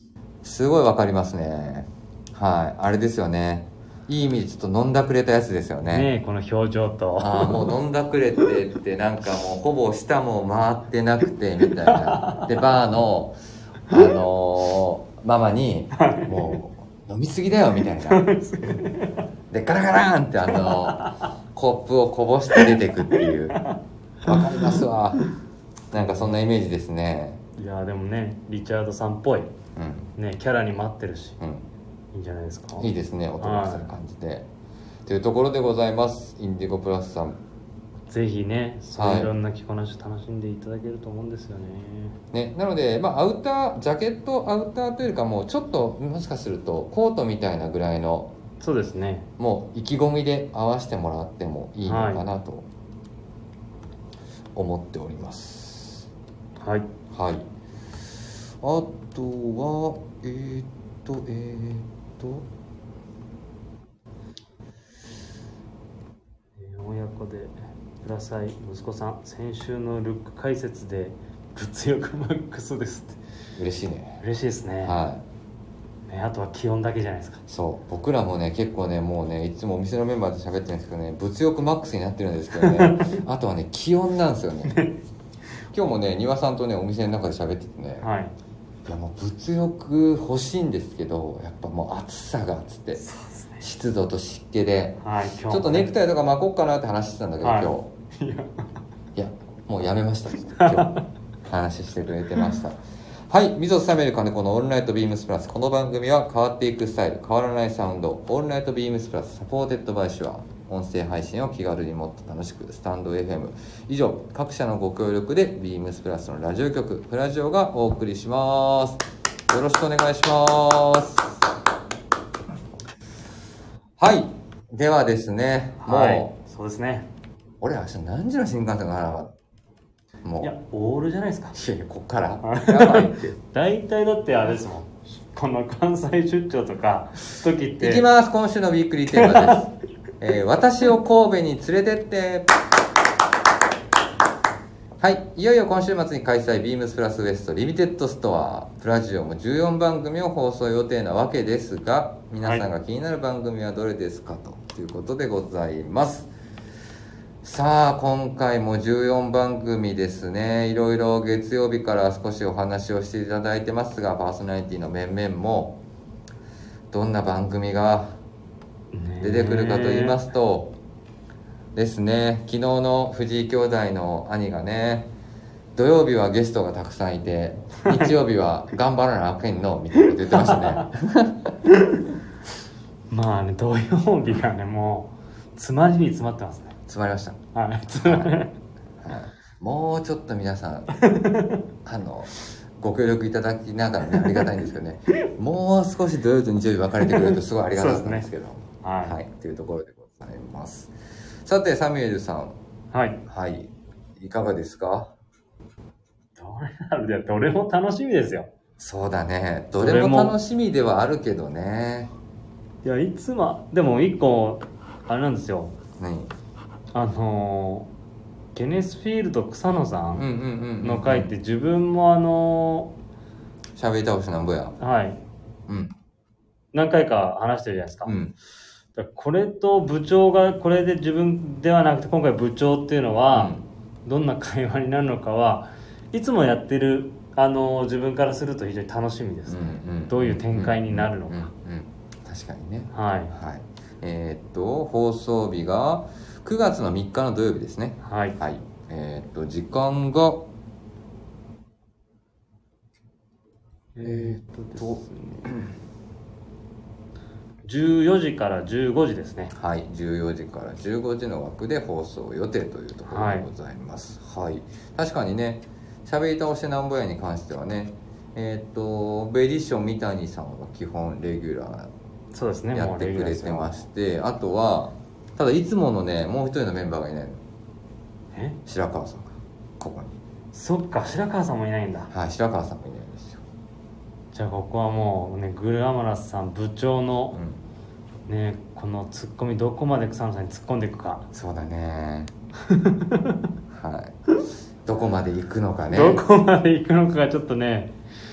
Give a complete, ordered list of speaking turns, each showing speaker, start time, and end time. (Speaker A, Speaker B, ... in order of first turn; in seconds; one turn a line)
Speaker A: 0.4-6.1
Speaker B: 5.9-7.7
Speaker A: 7.2-13.4
Speaker B: 11.8-12.5
Speaker A: 13.9-18.2
Speaker B: 15.9-16.6
Speaker B: 18.0-19.2
Speaker A: 19.5-23.6
Speaker B: 20.5-21.3
Speaker B: 22.5-24.8
Speaker A: 24.2-25.2
Speaker A: 25.9-27.4
Speaker B: 25.9-26.3
Speaker B: 27.6-29.5
Speaker A: 29.8-30.1
Speaker B: 30.2-31.4
Speaker A: 31.4-31.6
Speaker B: 32.1-32.9
Speaker A: 32.8-34.5
Speaker B: 33.4-33.9
Speaker A: 35.0-37.4
Speaker B: 38.1-42.2
Speaker A: 39.0-39.3
Speaker A: 42.3-48.3
Speaker B: 48.6-49.3
Speaker A: 49.4-52.7
Speaker B: 51.9-52.3
Speaker A: 54.5-56.1
Speaker B: 56.6-56.9
Speaker A: 57.1-57.5
Speaker A: 58.6-62.5
Speaker B: 66.6-73.2
Speaker A: 73.6-74.2
Speaker B: 74.2-75.0
Speaker A: 74.8-75.2
Speaker B: 76.1-77.4
Speaker A: 77.5-84.8
Speaker B: 82.5-83.2
Speaker B: 84.7-85.0
Speaker A: 85.7-88.1
Speaker B: 88.0-88.3
Speaker A: 88.8-93.0
Speaker B: 93.0-93.6
Speaker A: 93.6-97.9
Speaker B: 95.0-95.9
Speaker B: 97.4-98.6
Speaker A: 99.1-121.4
Speaker B: 100.5-101.0
Speaker A: 124.0-126.3
Speaker B: 125.8-127.1
Speaker A: 127.6-129.3
Speaker A: 130.2-130.5
Speaker B: 130.4-131.6
Speaker A: 131.5-133.3
Speaker B: 132.4-138.1
Speaker A: 137.8-142.5
Speaker B: 139.1-139.6
Speaker A: 145.0-156.3
Speaker A: 157.4-165.8
Speaker A: 166.9-168.2
Speaker B: 168.9-170.2
Speaker A: 169.2-170.7
Speaker A: 171.7-175.1
Speaker A: 175.7-181.5
Speaker B: 180.0-180.8
Speaker B: 181.7-182.0
Speaker B: 183.1-186.8
Speaker A: 186.9-187.4
Speaker B: 187.5-188.6
Speaker A: 187.9-188.3
Speaker A: 189.0-191.0
Speaker B: 190.9-191.6
Speaker A: 191.8-200.9
Speaker B: 194.1-194.5
Speaker B: 197.0-198.2
Speaker B: 198.8-199.2
Speaker A: 201.4-202.6
Speaker B: 202.9-203.2
Speaker A: 203.3-205.1
Speaker B: 206.4-208.5
Speaker A: 208.8-212.1
Speaker B: 209.8-210.3
Speaker B: 212.8-215.8
Speaker A: 216.0-216.3
Speaker B: 216.9-217.9
Speaker B: 218.5-220.3
Speaker A: 220.1-221.3
Speaker B: 220.8-222.9
Speaker A: 223.8-224.8
Speaker B: 224.8-225.2
Speaker A: 225.7-225.9
Speaker B: 226.7-228.1
Speaker A: 228.1-228.3
Speaker B: 228.9-233.5
Speaker A: 233.3-233.6
Speaker B: 234.0-241.5
Speaker A: 239.5-250.4
Speaker B: 242.9-243.3
Speaker B: 248.0-248.4
Speaker B: 253.9-255.5
Speaker A: 254.0-255.7
Speaker B: 257.6-259.5
Speaker A: 259.5-271.9
Speaker B: 263.1-263.5
Speaker B: 272.3-273.8
Speaker A: 272.7-277.4
Speaker A: 278.6-280.1
Speaker B: 280.5-282.1
Speaker A: 282.1-283.4
Speaker B: 284.3-287.4
Speaker A: 287.3-287.6
Speaker B: 288.3-291.2
Speaker A: 291.3-292.3
Speaker B: 292.6-293.5
Speaker A: 293.7-294.1
Speaker A: 294.8-296.2
Speaker B: 295.9-297.9